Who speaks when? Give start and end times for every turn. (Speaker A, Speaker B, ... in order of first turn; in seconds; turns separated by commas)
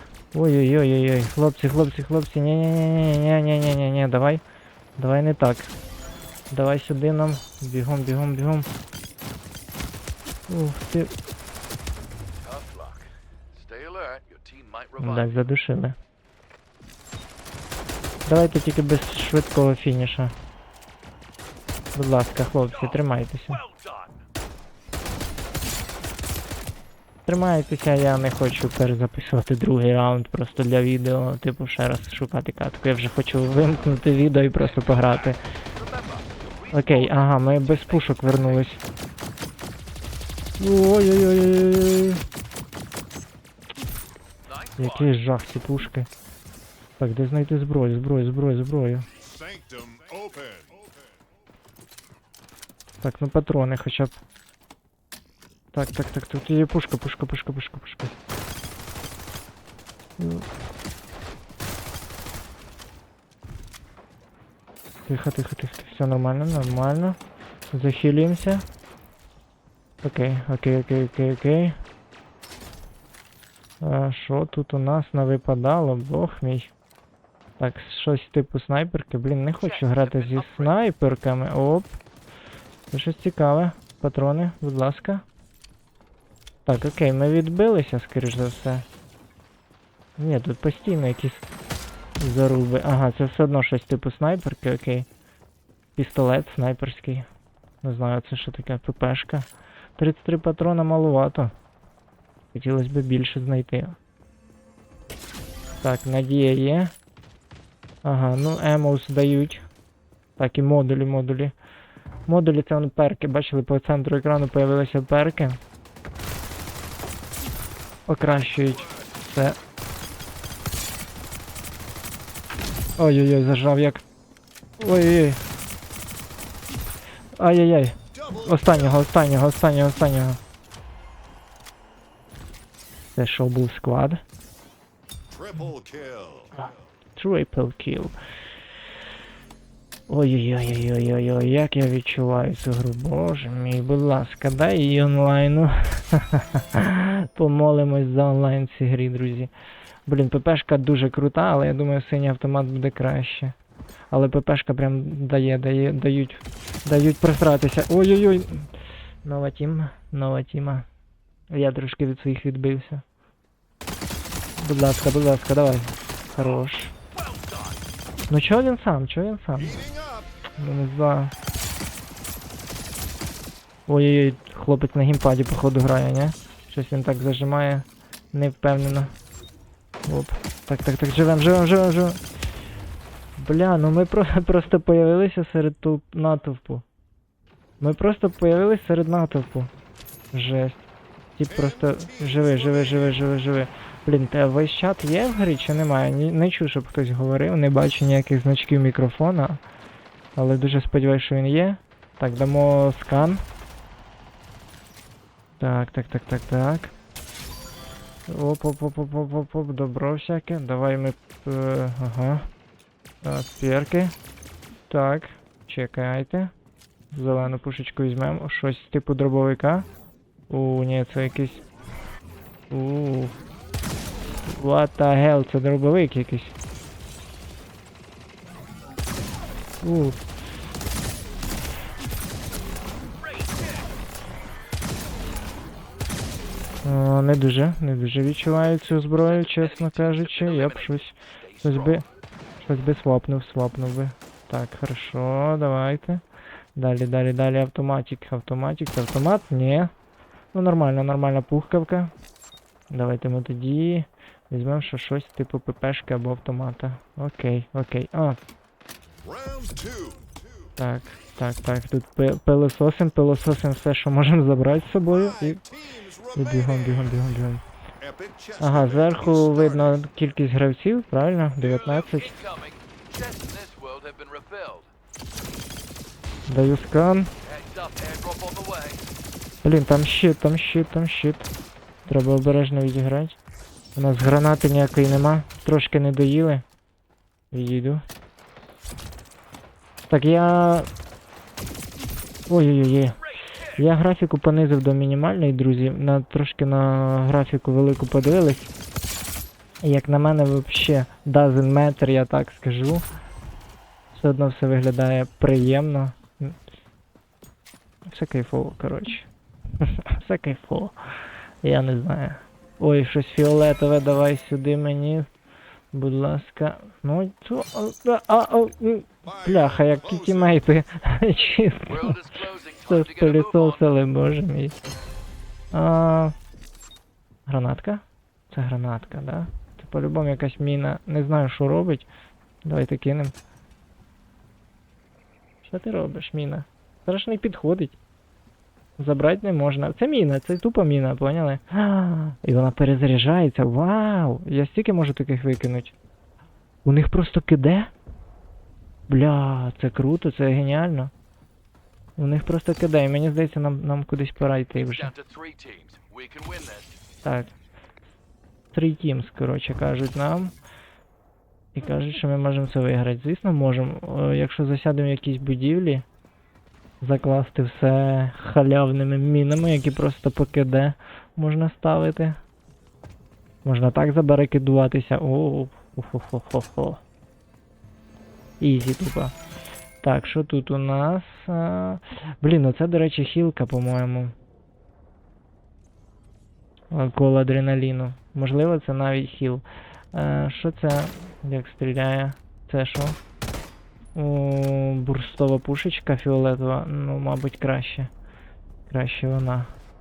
Speaker A: 0.3-4.4, Speaker A: 5.0-5.7, Speaker A: 6.5-8.7, Speaker A: 10.5-11.1, Speaker B: 12.4-15.5, Speaker A: 15.0-16.0, Speaker A: 18.3-20.3, Speaker A: 21.9-23.6, Speaker B: 22.7-24.2, Speaker A: 27.2-35.4, Speaker B: 34.6-38.8, Speaker A: 36.7-38.8, Speaker A: 40.6-42.2, Speaker B: 44.5-45.2, Speaker A: 44.8-46.1, Speaker A: 47.0-49.1, Speaker C: 49.2-51.1, Speaker A: 53.0-54.1, Speaker A: 55.7-58.1, Speaker A: 60.2-60.5, Speaker A: 65.1-67.2, Speaker A: 67.7-68.6, Speaker A: 70.0-71.8, Speaker A: 73.8-76.7, Speaker A: 77.6-81.9, Speaker B: 79.6-80.8, Speaker A: 82.9-85.2, Speaker A: 86.7-88.8, Speaker A: 90.2-91.5, Speaker A: 92.2-95.1, Speaker A: 96.0-97.2, Speaker A: 97.8-99.5, Speaker A: 100.0-101.5, Speaker A: 102.5-104.0, Speaker A: 105.8-106.9, Speaker A: 108.0-109.6, Speaker A: 110.4-111.5, Speaker A: 112.3-115.6, Speaker A: 118.1-119.6, Speaker B: 118.2-119.0, Speaker A: 123.0-124.0, Speaker A: 124.8-125.4, Speaker A: 127.4-130.4, Speaker C: 128.1-129.0, Speaker A: 133.2-134.2, Speaker C: 135.3-136.7, Speaker A: 136.6-138.1, Speaker A: 140.1-149.5, Speaker A: 150.1-153.5, Speaker A: 154.1-158.7, Speaker A: 159.2-160.8, Speaker A: 161.5-163.0, Speaker A: 164.6-166.9, Speaker B: 166.4-167.8, Speaker A: 168.3-169.8, Speaker C: 169.6-170.3, Speaker A: 170.6-171.3, Speaker A: 173.9-179.1, Speaker A: 180.1-182.2, Speaker A: 183.4-186.8, Speaker A: 187.8-189.7, Speaker A: 190.3-190.8, Speaker A: 191.4-199.6, Speaker C: 191.5-193.2, Speaker A: 200.3-203.4, Speaker A: 205.6-206.9, Speaker A: 208.3-212.5, Speaker A: 213.2-214.1, Speaker A: 214.9-216.5, Speaker A: 217.1-219.8, Speaker A: 220.5-221.6, Speaker A: 222.7-223.3, Speaker A: 224.4-226.5, Speaker A: 229.8-230.2, Speaker B: 233.1-233.9, Speaker A: 236.8-242.0, Speaker B: 238.8-242.0, Speaker A: 242.6-246.2, Speaker A: 246.8-249.9, Speaker A: 250.5-252.1, Speaker A: 252.9-258.4, Speaker C: 259.2-260.7, Speaker A: 260.8-265.6, Speaker C: 265.1-267.3, Speaker A: 266.4-267.6, Speaker C: 268.0-270.0, Speaker A: 268.6-272.4, Speaker B: 271.6-274.9, Speaker A: 276.5-277.3, Speaker B: 277.4-279.0, Speaker A: 279.6-281.5, Speaker A: 282.1-283.4, Speaker A: 284.0-286.6, Speaker A: 287.5-288.0, Speaker A: 290.0-290.9, Speaker A: 292.5-293.2, Speaker B: 293.0-293.8, Speaker A: 293.8-298.7, Speaker A: 299.8-303.0, Speaker A: 304.1-306.6, Speaker A: 308.1-309.3, Speaker A: 309.8-310.9, Speaker A: 311.6-315.3, Speaker A: 315.9-322.2, Speaker C: 319.2-320.6, Speaker B: 321.9-323.9, Speaker A: 322.9-324.7, Speaker A: 325.7-326.3, Speaker A: 327.5-332.1, Speaker A: 332.6-333.3, Speaker A: 335.6-338.0, Speaker A: 339.0-345.9, Speaker A: 346.8-347.9, Speaker A: 349.1-351.1, Speaker A: 352.2-355.1, Speaker B: 354.7-357.0, Speaker A: 357.2-357.5, Speaker A: 358.7-360.5, Speaker A: 361.8-366.0, Speaker A: 367.0-372.4, Speaker A: 373.6-377.0, Speaker A: 378.6-379.3, Speaker A: 380.0-384.3, Speaker A: 386.9-393.2, Speaker A: 394.1-398.1, Speaker A: 398.9-399.7